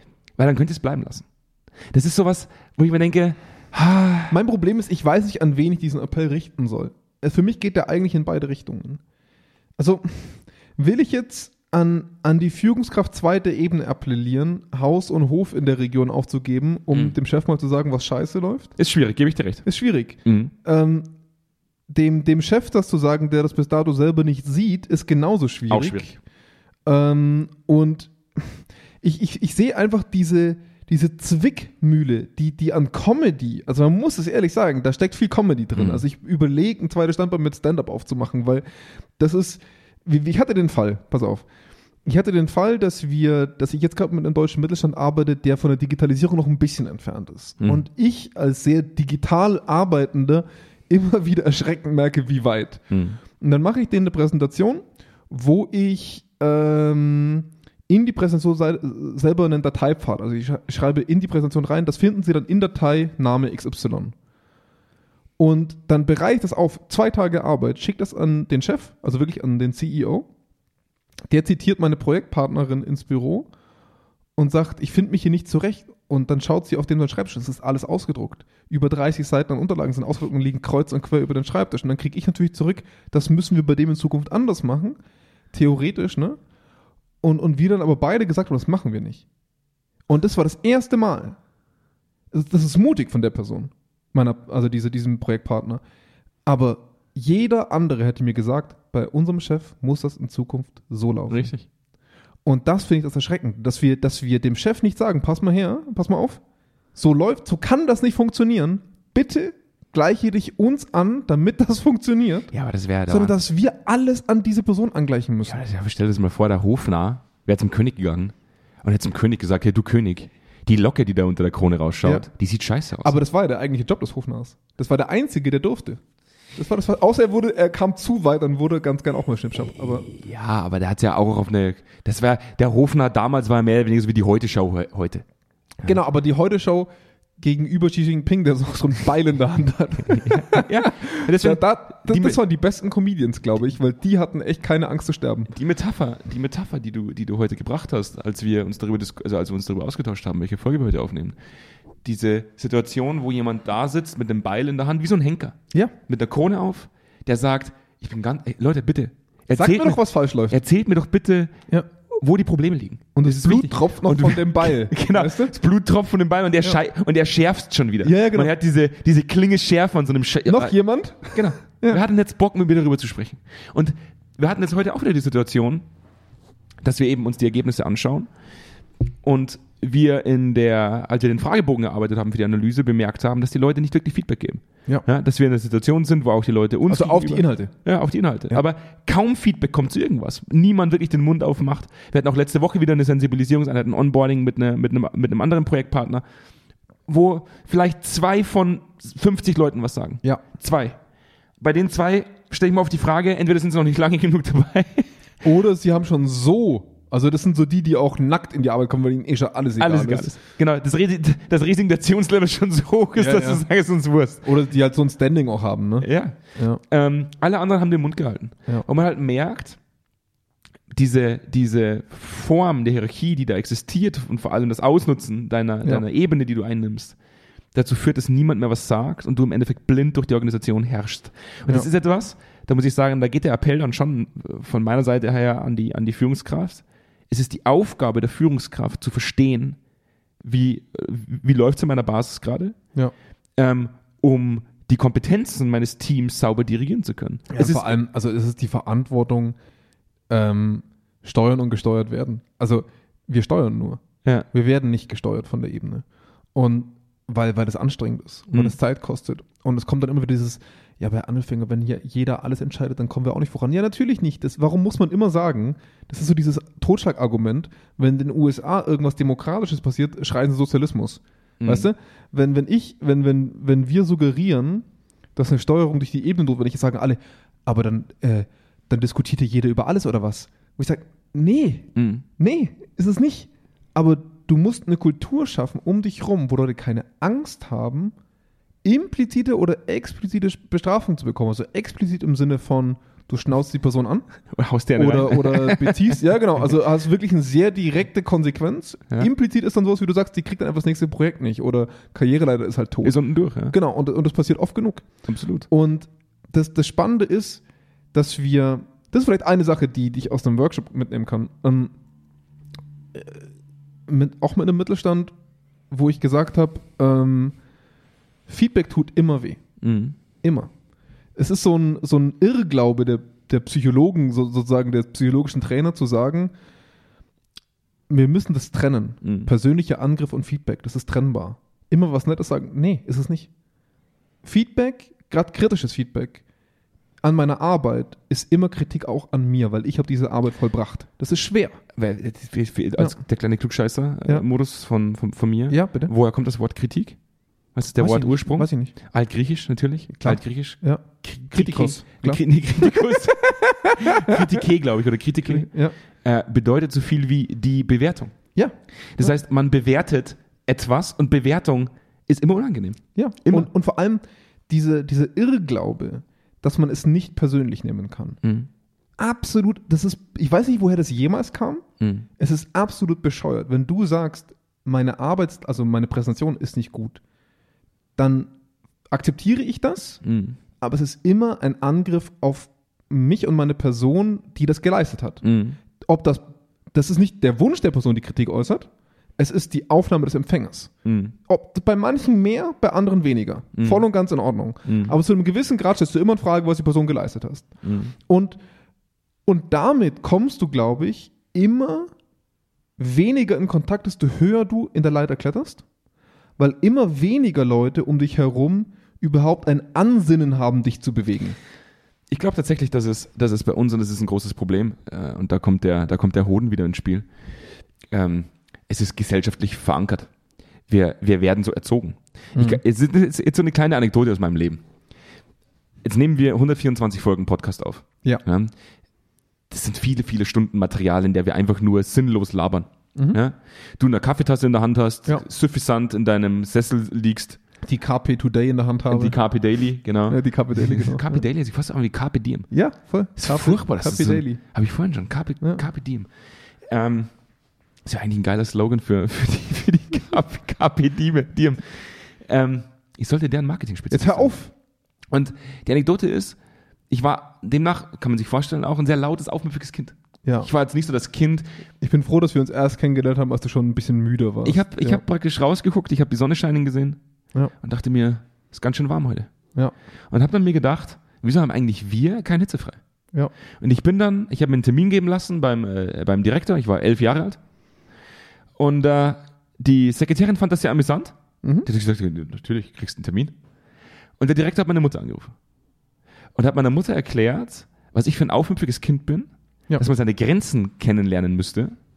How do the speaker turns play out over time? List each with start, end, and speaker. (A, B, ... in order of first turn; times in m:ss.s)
0:00.4-0:01.2 A
0:01.9-0:04.4 A
0:04.3-0:09.0 B
0:09.8-0:18.7 B
0:18.8-0:19.6 A
0:19.6-0:21.1 B
0:20.2-0:20.5 A
0:21.9-0:26.2 B
0:25.7-0:26.1 A
0:26.8-0:38.6 B
0:35.7-0:36.0 A
0:39.2-0:41.4 B
0:42.0-1:04.1 B
0:52.9-0:53.2 A
1:05.4-1:10.3 B
1:11.3-1:13.5 B
1:14.4-1:25.0 B
1:25.5-1:26.4 B
1:27.2-1:29.2 B
1:30.1-1:31.4 B
1:32.3-1:35.8 B
1:36.4-1:41.5 B
1:41.3-1:41.6 A
1:42.4-1:46.4 B
1:46.9-1:52.5 B
1:52.5-1:53.3 A
1:53.1-1:55.6 B
1:55.4-2:03.2 A
2:03.0-2:06.0 B
2:06.6-2:10.0 B
2:10.1-2:15.2 A
2:15.8-2:25.5 B
2:20.1-2:22.4 A
2:25.5-2:31.4 A
2:32.0-2:41.5 A
2:39.5-2:40.6 B
2:42.1-2:50.7 A
2:43.2-2:45.6 B
2:48.0-2:48.5 B
2:50.5-2:52.0 B
2:51.3-2:55.8 A
2:56.8-2:58.3 A
2:59.2-3:16.2 A
3:06.9-3:07.7 B
3:17.1-3:21.0 A
3:21.6-3:25.1 A
3:25.4-3:30.3 B
3:29.8-3:34.4 A
3:33.2-3:33.6 B
3:34.4-3:36.8 B
3:36.0-3:39.8 A
3:40.9-3:47.2 A
3:47.7-3:59.8 A
4:00.4-4:02.8 A
4:03.6-4:07.9 A
4:07.5-4:09.6 B
4:10.3-4:48.1 B
4:31.6-4:31.9 A
4:42.0-4:42.2 A
4:48.8-4:54.3 B
4:54.5-4:56.2 A
4:55.0-5:03.2 B
5:03.0-5:03.8 A
5:03.7-5:05.0 B
5:05.3-5:05.7 A
5:05.7-5:07.6 B
5:08.1-5:11.9 B
5:13.1-5:13.4 B
5:14.1-5:15.3 B
5:15.9-5:17.6 B
5:18.5-5:19.6 B
5:19.8-5:20.2 A
5:20.4-5:20.7 B
5:21.4-5:26.5 B
5:28.1-5:33.5 B
5:29.2-5:29.5 A
5:34.4-5:36.4 B
5:37.2-5:41.8 B
5:42.0-5:47.2 A
5:45.7-5:46.1 B
5:47.7-5:55.7 A
5:48.0-5:48.9 B
5:50.1-5:54.6 B
5:55.4-5:55.9 B
5:56.2-5:58.3 A
5:58.5-5:59.3 B
5:59.2-6:03.7 A
6:03.1-6:08.4 B
6:08.4-6:08.7 A
6:09.2-6:11.8 B
6:12.0-6:12.3 A
6:12.4-6:17.2 B
6:18.2-6:18.5 B
6:19.1-6:20.2 B
6:20.2-6:20.6 A
6:20.8-6:25.4 B
6:25.4-6:25.8 A
6:25.9-6:30.9 B
6:31.0-6:31.3 A
6:31.4-6:38.6 B
6:33.8-6:34.0 A
6:34.8-6:35.2 A
6:37.8-6:38.1 A
6:39.4-6:42.1 B
6:43.0-6:45.8 B
6:46.6-6:51.6 B
6:52.3-6:57.3 A
6:58.1-7:00.3 A
7:00.9-7:04.8 A
7:02.5-7:02.8 B
7:06.0-7:08.7 A
7:09.7-7:17.6 A
7:17.8-7:19.4 B
7:19.1-7:22.7 A
7:20.3-7:21.4 B
7:22.7-7:24.6 B
7:23.4-7:26.3 A
7:26.9-7:27.3 A
7:28.0-7:34.5 A
7:34.1-7:34.7 B
7:35.3-7:36.6 A
7:37.1-7:41.6 A
7:40.4-7:40.7 B
7:42.0-7:45.2 B
7:44.6-7:47.2 A
7:47.8-7:49.5 A
7:50.3-7:53.0 A
7:53.8-7:57.6 A
7:58.8-8:01.3 A
8:01.6-8:01.9 B
8:01.8-8:03.5 A
8:04.4-8:05.5 A
8:06.6-8:12.0 A